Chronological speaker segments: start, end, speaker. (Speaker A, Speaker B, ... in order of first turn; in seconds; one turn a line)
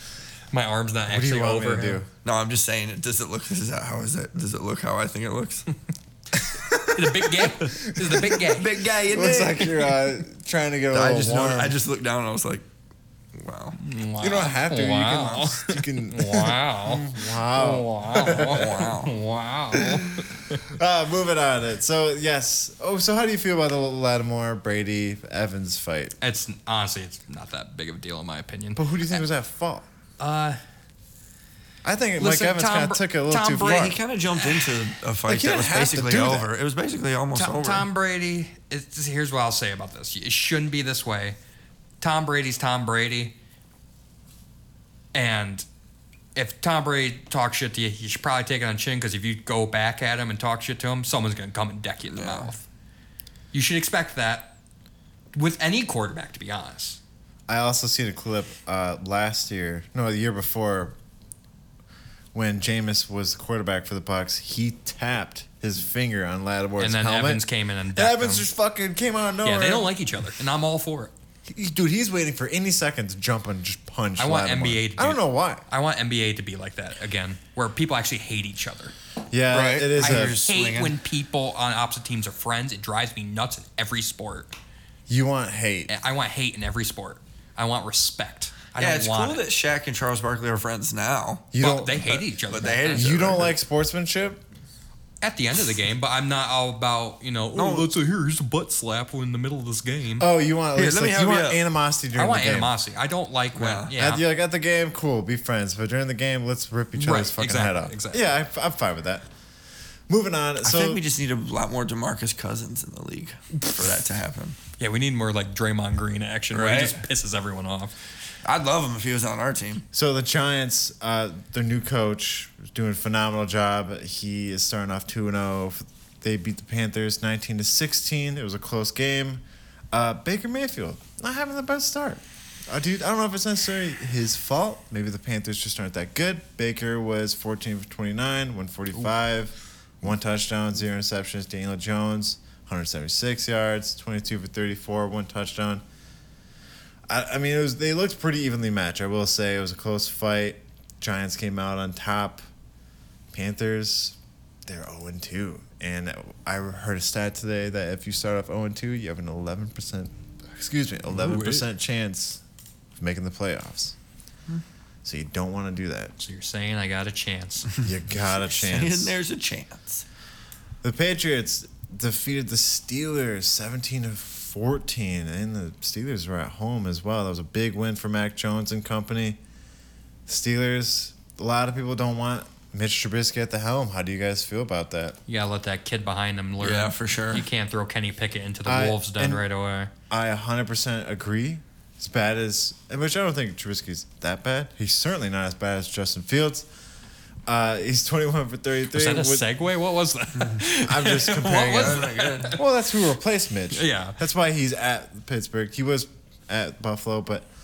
Speaker A: 0.5-2.0
Speaker B: 1.1-2.1
Speaker C: 2.2-5.7
Speaker B: 6.5-7.0
Speaker A: 6.8-8.8
Speaker B: 7.6-8.1
Speaker C: 8.4-10.0
Speaker B: 9.1-11.8
Speaker C: 10.9-12.7
Speaker C: 13.3-13.8
Speaker A: 13.8-20.6
Speaker B: 14.2-18.6
Speaker C: 18.1-19.1
Speaker B: 19.8-26.2
Speaker A: 26.2-29.2
Speaker B: 28.7-29.9
Speaker A: 30.2-30.6
Speaker B: 31.8-34.0
Speaker A: 32.2-33.9
Speaker C: 33.5-37.9
Speaker B: 35.3-36.5
Speaker A: 37.3-41.4
Speaker A: 42.0-43.4
Speaker A: 45.1-45.6
Speaker A: 46.3-52.6
Speaker C: 52.1-52.5
Speaker A: 53.5-54.5
Speaker A: 55.3-57.0
Speaker B: 57.5-61.0
Speaker B: 62.3-67.4
Speaker A: 66.8-68.5
Speaker B: 67.9-69.9
Speaker A: 69.4-71.1
Speaker B: 71.5-75.6
Speaker A: 74.2-78.9
Speaker B: 79.3-80.4
Speaker C: 79.5-81.0
Speaker A: 80.0-84.5
Speaker B: 85.1-85.9
Speaker A: 85.9-89.4
Speaker C: 88.8-91.5
Speaker B: 91.5-92.2
Speaker A: 91.6-93.3
Speaker C: 92.5-93.5
Speaker B: 92.9-94.4
Speaker A: 95.2-100.2
Speaker C: 97.5-97.9
Speaker B: 100.2-102.7
Speaker C: 100.7-101.6
Speaker A: 102.1-104.2
Speaker C: 103.5-103.9
Speaker B: 103.9-109.2
Speaker A: 107.0-108.2
Speaker B: 110.1-111.0
Speaker C: 110.6-114.6
Speaker A: 114.8-117.9
Speaker C: 116.5-117.0
Speaker C: 118.4-119.8
Speaker B: 119.9-145.8
Speaker B: 147.1-152.4
Speaker B: 153.3-162.4
Speaker A: 161.1-161.6
Speaker B: 163.0-163.9
Speaker B: 165.0-166.1
Speaker A: 166.2-167.7
Speaker B: 167.8-169.1
Speaker C: 168.4-170.0
Speaker B: 170.8-179.4
Speaker B: 180.3-185.2
Speaker A: 185.3-189.9
Speaker C: 186.6-187.5
Speaker B: 188.7-189.4
Speaker B: 190.1-196.7
Speaker B: 197.5-199.5
Speaker A: 198.9-202.6
Speaker B: 200.8-207.5
Speaker C: 201.6-202.6
Speaker A: 203.7-204.2